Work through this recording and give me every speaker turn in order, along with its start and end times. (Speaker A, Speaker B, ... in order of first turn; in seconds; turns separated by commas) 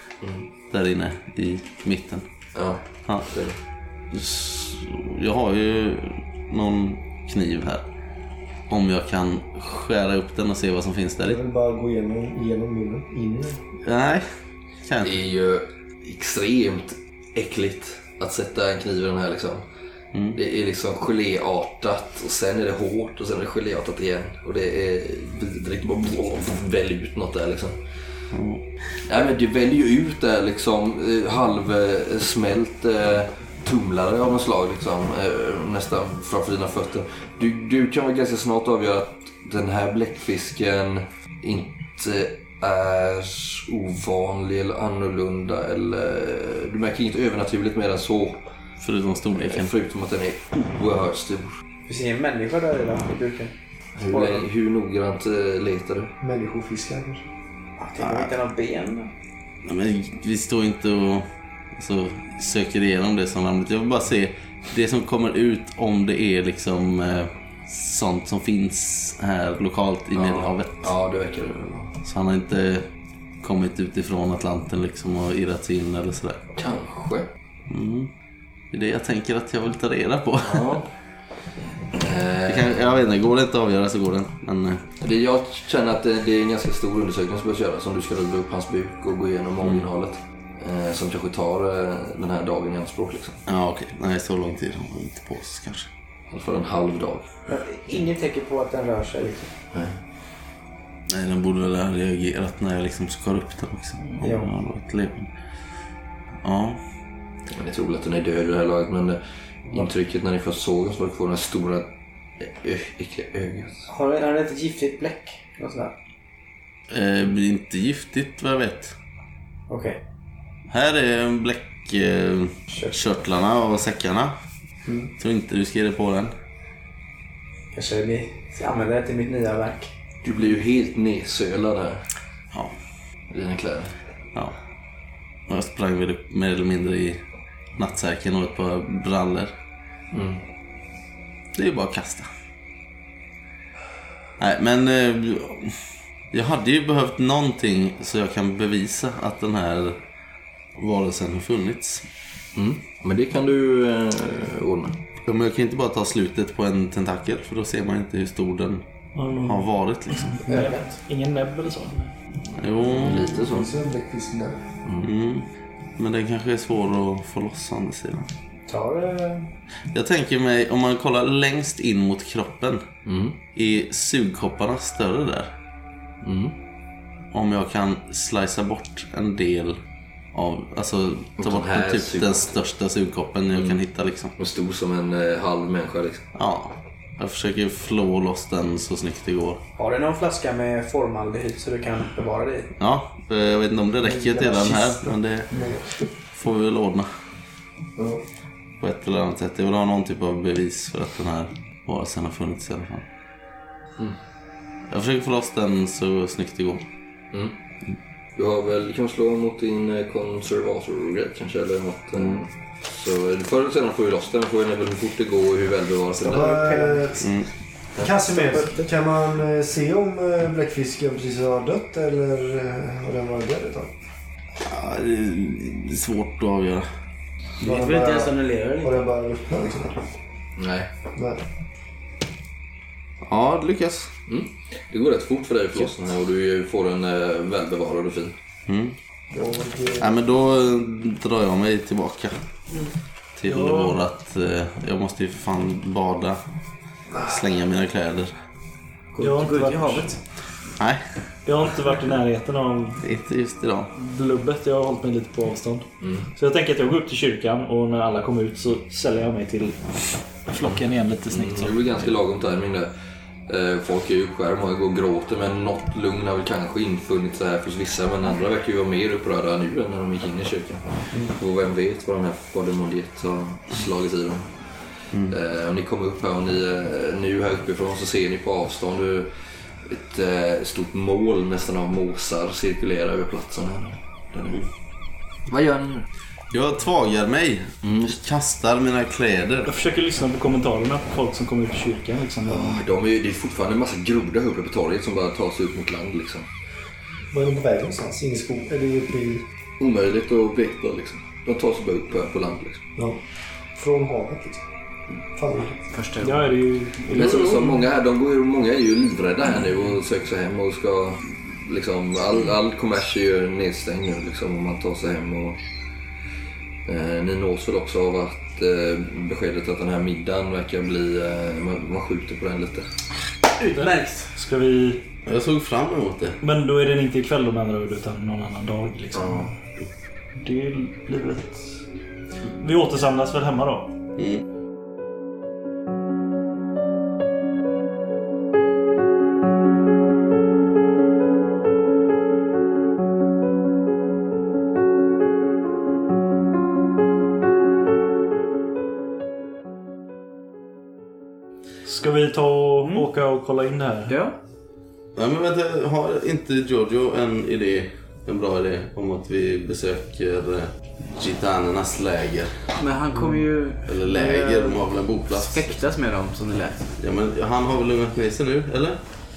Speaker A: 0.7-2.3, Speaker B: 2.5-3.5, Speaker A: 3.0-3.3, Speaker A: 4.1-7.8, Speaker A: 8.7-11.4, Speaker C: 11.2-13.6, Speaker A: 13.8-14.2, Speaker A: 14.8-15.1, Speaker B: 15.0-19.6, Speaker B: 20.3-27.8, Speaker A: 28.3-28.6, Speaker B: 29.0-48.5, Speaker A: 48.8-49.7, Speaker B: 49.3-51.5, Speaker D: 51.9-53.5, Speaker B: 53.9-56.1, Speaker D: 54.1-54.4, Speaker C: 56.2-57.2, Speaker D: 57.8-59.1, Speaker A: 58.0-58.3, Speaker A: 59.6-70.9, Speaker B: 70.1-71.9, Speaker A: 72.0-72.8, Speaker A: 73.4-76.5, Speaker B: 76.6-77.3, Speaker A: 77.7-78.1, Speaker A: 78.7-80.7, Speaker B: 80.4-80.9, Speaker B: 81.9-82.8, Speaker A: 82.5-84.8, Speaker B: 85.0-93.4, Speaker A: 93.5-95.9, Speaker B: 96.3-97.3, Speaker D: 97.5-99.5, Speaker B: 99.7-100.0, Speaker A: 101.1-105.3, Speaker D: 104.2-104.5, Speaker A: 106.4-106.8, Speaker B: 107.5-113.9, Speaker D: 113.9-115.9, Speaker A: 116.9-119.0, Speaker D: 119.7-120.0, Speaker A: 120.7-124.3, Speaker D: 122.7-123.0, Speaker A: 125.2-126.3, Speaker D: 127.7-129.9, Speaker B: 130.2-132.1, Speaker B: 133.3-133.9, Speaker A: 135.5-137.2, Speaker A: 137.8-139.5, Speaker B: 140.1-140.4, Speaker A: 141.5-142.3, Speaker A: 144.4-150.0, Speaker A: 150.8-152.1, Speaker B: 152.5-155.0, Speaker A: 155.2-158.8, Speaker E: 159.1-162.1, Speaker A: 159.4-160.4, Speaker D: 160.5-160.9, Speaker A: 162.6-163.3, Speaker B: 162.8-163.7, Speaker C: 163.3-164.6, Speaker A: 165.0-168.3, Speaker D: 168.7-169.5, Speaker A: 169.9-172.8, Speaker B: 173.0-173.4, Speaker A: 173.5-175.5, Speaker B: 176.2-176.5, Speaker A: 177.3-179.8, Speaker A: 180.3-184.3, Speaker B: 181.4-182.5, Speaker B: 183.5-183.8, Speaker B: 184.4-186.2, Speaker A: 186.3-189.6, Speaker D: 189.8-192.7, Speaker A: 192.8-195.6, Speaker D: 194.2-194.5, Speaker C: 194.6-194.9, Speaker C: 195.5-195.8, Speaker A: 196.3-197.1, Speaker C: 198.0-198.2, Speaker A: 198.8-203.0, Speaker A: 204.9-206.8, Speaker B: 208.3-216.6, Speaker D: 216.2-217.3, Speaker C: 216.2-217.3, Speaker A: 217.2-217.5, Speaker C: 218.0-223.9, Speaker D: 218.3-218.9, Speaker A: 224.6-226.9, Speaker D: 227.6-229.1, Speaker C: 227.6-230.0, Speaker B: 230.6-230.9, Speaker C: 231.1-231.4, Speaker A: 233.2-234.1, Speaker B: 234.3-238.3, Speaker A: 238.7-238.9, Speaker C: 239.3-240.1, Speaker A: 240.0-242.4, Speaker A: 243.4-246.4, Speaker E: 243.4-243.9, Speaker A: 247.2-248.3, Speaker D: 249.1-250.2, Speaker E: 249.2-250.2, Speaker A: 250.8-251.1, Speaker E: 251.4-253.0, Speaker A: 253.0-253.9, Speaker E: 253.9-261.8, Speaker B: 256.0-256.3, Speaker B: 260.6-262.9, Speaker B: 263.5-284.7, Speaker B: 285.5-286.1, Speaker A: 286.5-289.7, Speaker B: 287.8-288.2, Speaker E: 289.6-292.8, Speaker B: 292.4-296.5, Speaker C: 297.3-299.4, Speaker B: 299.8-302.8, Speaker C: 303.0-303.2, Speaker C: 303.7-304.6, Speaker C: 305.3-305.8, Speaker D: 305.9-306.5, Speaker E: 306.2-307.7, Speaker B: 307.1-315.6, Speaker B: 316.9-322.9, Speaker E: 323.7-325.0, Speaker A: 325.2-326.4, Speaker E: 326.4-329.5, Speaker B: 329.1-329.5, Speaker E: 330.4-331.8, Speaker E: 332.6-333.9, Speaker E: 351.9-354.2, Speaker D: 354.1-354.4, Speaker A: 355.1-362.7, Speaker D: 362.8-366.9, Speaker A: 363.9-365.8, Speaker A: 367.0-369.0